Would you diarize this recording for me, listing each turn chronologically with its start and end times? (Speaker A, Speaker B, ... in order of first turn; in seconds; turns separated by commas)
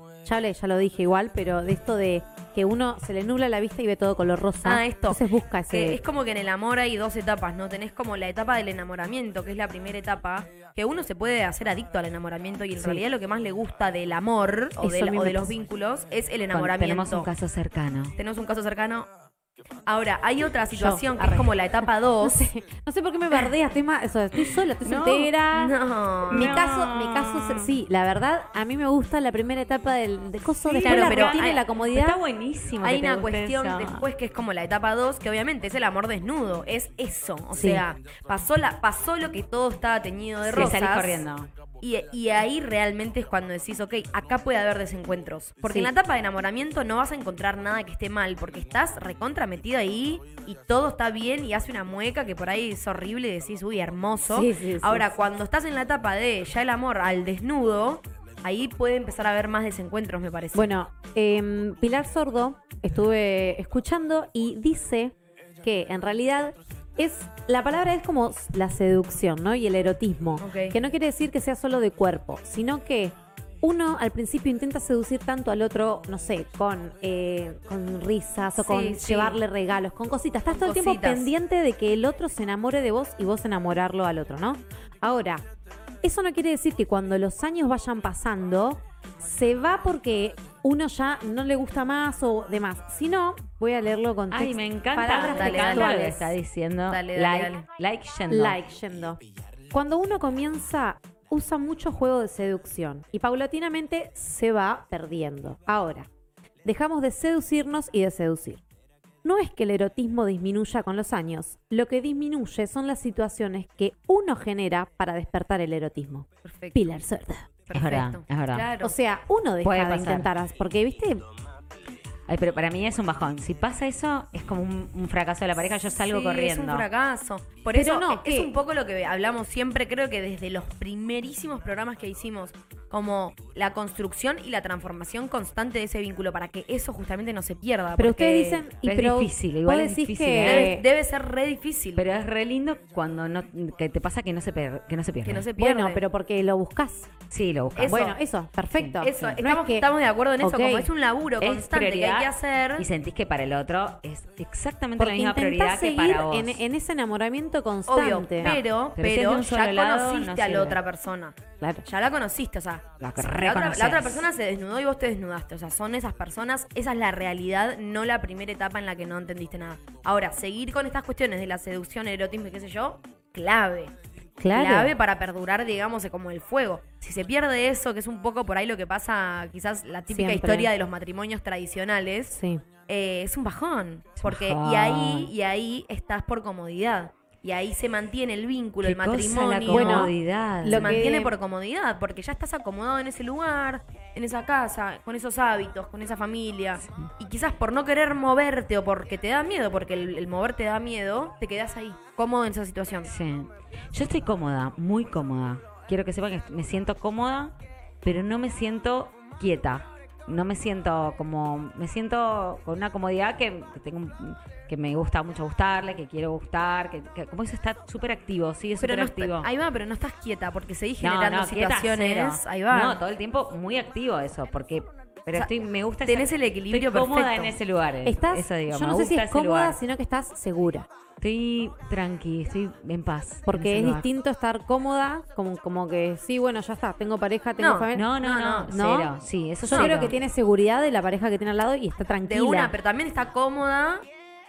Speaker A: 0.2-6.0, Speaker B: 4.6-17.3, Speaker A: 12.8-13.0, Speaker A: 14.8-15.6, Speaker C: 16.5-18.2, Speaker B: 18.2-19.1, Speaker B: 19.9-22.4, Speaker A: 20.7-21.5, Speaker A: 22.2-25.7, Speaker C: 24.8-25.3, Speaker B: 25.5-26.5, Speaker A: 26.3-32.2, Speaker C: 26.3-27.7, Speaker B: 30.8-31.6, Speaker C: 30.8-34.1, Speaker B: 32.8-41.2, Speaker A: 37.5-37.9, Speaker C: 40.5-41.5, Speaker B: 41.8-60.7, Speaker A: 54.3-55.1, Speaker A: 60.5-85.4, Speaker B: 70.4-70.8, Speaker B: 78.6-79.4, Speaker B: 80.5-81.3, Speaker A: 86.0-96.3, Speaker C: 94.3-98.6, Speaker B: 95.3-96.0, Speaker B: 96.9-97.7, Speaker A: 98.3-99.2, Speaker A: 99.7-106.1, Speaker A: 106.7-108.6, Speaker A: 109.2-117.5, Speaker B: 116.5-116.8, Speaker B: 117.7-118.9, Speaker C: 117.7-118.7, Speaker A: 118.8-121.2, Speaker C: 119.6-120.3, Speaker C: 122.3-126.9, Speaker B: 126.0-138.6, Speaker A: 127.7-128.5, Speaker A: 138.0-140.8, Speaker C: 138.8-140.7, Speaker B: 140.4-142.0, Speaker C: 142.0-145.5, Speaker B: 145.2-146.0, Speaker A: 145.6-147.1, Speaker C: 147.3-148.1, Speaker B: 147.8-148.2, Speaker A: 147.9-149.9, Speaker C: 148.7-149.4, Speaker B: 149.0-152.9, Speaker A: 150.4-150.9, Speaker C: 151.4-156.6, Speaker A: 155.0-158.6, Speaker B: 157.9-173.9, Speaker C: 159.0-160.8, Speaker C: 163.0-164.3, Speaker A: 174.4-174.9, Speaker B: 174.5-182.4, Speaker A: 180.1-180.7, Speaker A: 182.3-182.6, Speaker B: 182.9-190.1, Speaker C: 184.2-185.3, Speaker C: 188.8-191.0, Speaker A: 189.7-191.3, Speaker B: 190.7-203.1, Speaker C: 196.8-197.1, Speaker C: 203.1-219.5, Speaker B: 218.8-223.0, Speaker C: 221.0-229.8, Speaker B: 226.0-227.6, Speaker A: 228.1-230.9, Speaker C: 231.2-234.1, Speaker A: 233.5-238.1, Speaker B: 237.6-238.7, Speaker C: 237.9-240.2, Speaker A: 238.7-242.7, Speaker B: 239.7-240.1, Speaker B: 242.3-244.0